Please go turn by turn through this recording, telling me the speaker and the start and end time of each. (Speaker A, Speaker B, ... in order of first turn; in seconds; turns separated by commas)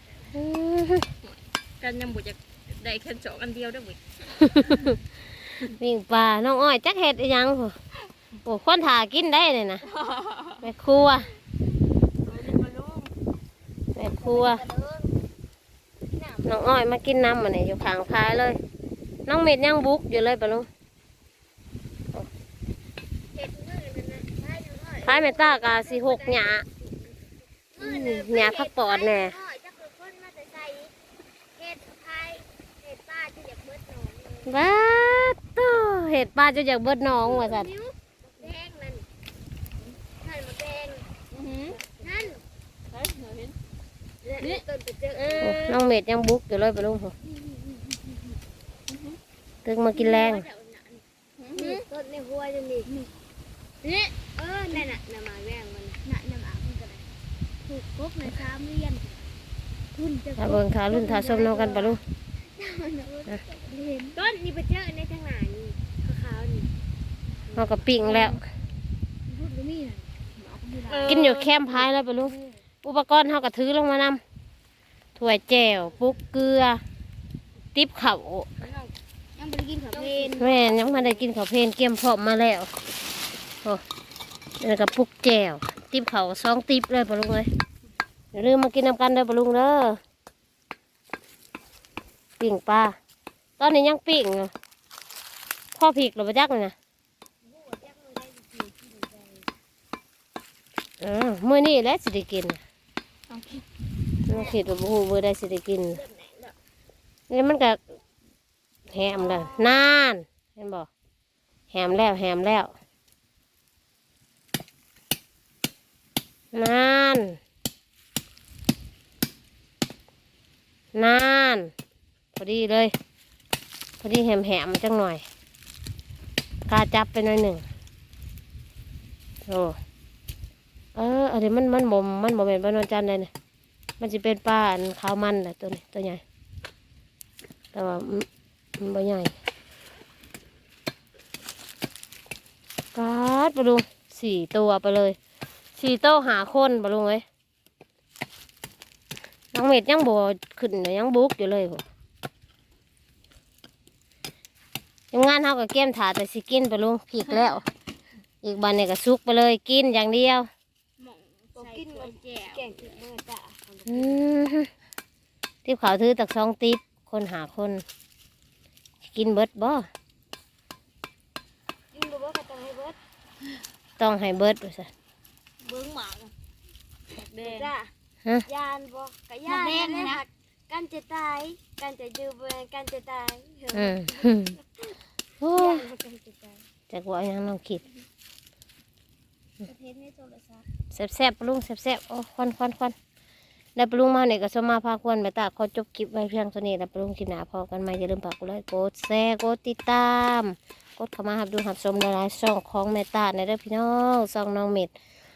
Speaker A: 0.3-1.0, Speaker B: 1.3-4.9, Speaker A: 4.5-4.9, Speaker A: 5.7-7.7, Speaker A: 8.4-9.8, Speaker B: 9.9-10.7, Speaker A: 10.6-11.3, Speaker B: 12.2-13.1, Speaker A: 13.9-14.6, Speaker C: 14.2-15.1, Speaker A: 16.4-18.6, Speaker A: 19.3-20.7, Speaker C: 23.3-27.1, Speaker A: 25.0-26.6, Speaker C: 27.8-30.9, Speaker A: 27.8-29.4, Speaker C: 31.6-34.5, Speaker A: 34.5-37.7, Speaker C: 37.2-39.0, Speaker C: 40.2-41.0, Speaker B: 41.3-42.3, Speaker C: 42.0-42.4, Speaker B: 42.9-43.5, Speaker C: 44.2-45.6, Speaker B: 44.4-45.8, Speaker A: 45.4-47.1, Speaker B: 48.9-49.2, Speaker A: 49.6-50.5, Speaker C: 49.9-51.0, Speaker B: 51.4-51.9, Speaker C: 51.5-53.0, Speaker C: 53.8-57.0, Speaker C: 57.7-59.2, Speaker C: 60.0-66.7, Speaker A: 60.4-62.0, Speaker A: 67.5-68.4, Speaker C: 67.5-68.4, Speaker C: 69.3-71.3, Speaker B: 70.9-71.9, Speaker A: 71.1-74.2, Speaker A: 75.2-76.8, Speaker A: 77.7-78.5, Speaker C: 78.6-81.2, Speaker B: 79.9-80.5, Speaker A: 80.3-82.7, Speaker A: 84.6-87.5, Speaker A: 88.3-90.0, Speaker A: 92.4-92.9, Speaker A: 93.6-94.5, Speaker A: 95.7-96.7, Speaker C: 97.4-99.4, Speaker A: 101.0-102.6, Speaker B: 103.3-103.6, Speaker A: 104.3-106.0, Speaker C: 104.3-104.6, Speaker C: 106.1-106.5, Speaker A: 107.3-107.8, Speaker A: 108.9-110.9, Speaker C: 109.1-109.7, Speaker A: 111.7-112.7, Speaker A: 116.5-117.4, Speaker A: 120.9-121.7, Speaker A: 122.4-122.9, Speaker A: 124.0-125.2, Speaker A: 126.7-127.6, Speaker A: 129.4-129.8, Speaker A: 130.9-133.3, Speaker A: 134.0-136.2, Speaker A: 137.7-138.2, Speaker A: 138.8-139.3, Speaker A: 142.9-145.2, Speaker A: 145.8-147.2, Speaker A: 149.5-151.8, Speaker A: 155.1-157.6, Speaker B: 157.2-157.5, Speaker A: 158.4-160.5, Speaker B: 161.0-162.7, Speaker C: 161.6-164.2, Speaker A: 163.9-164.7, Speaker A: 165.6-167.8, Speaker A: 169.0-169.8, Speaker C: 171.9-172.9, Speaker A: 174.0-174.9, Speaker B: 175.6-176.3, Speaker B: 177.2-177.7, Speaker C: 177.4-177.9, Speaker C: 178.5-184.5, Speaker B: 179.5-180.2, Speaker A: 183.7-184.6, Speaker A: 185.4-185.9, Speaker C: 185.5-186.6, Speaker A: 186.9-187.8, Speaker C: 189.6-190.6, Speaker A: 190.9-192.9, Speaker A: 193.8-204.9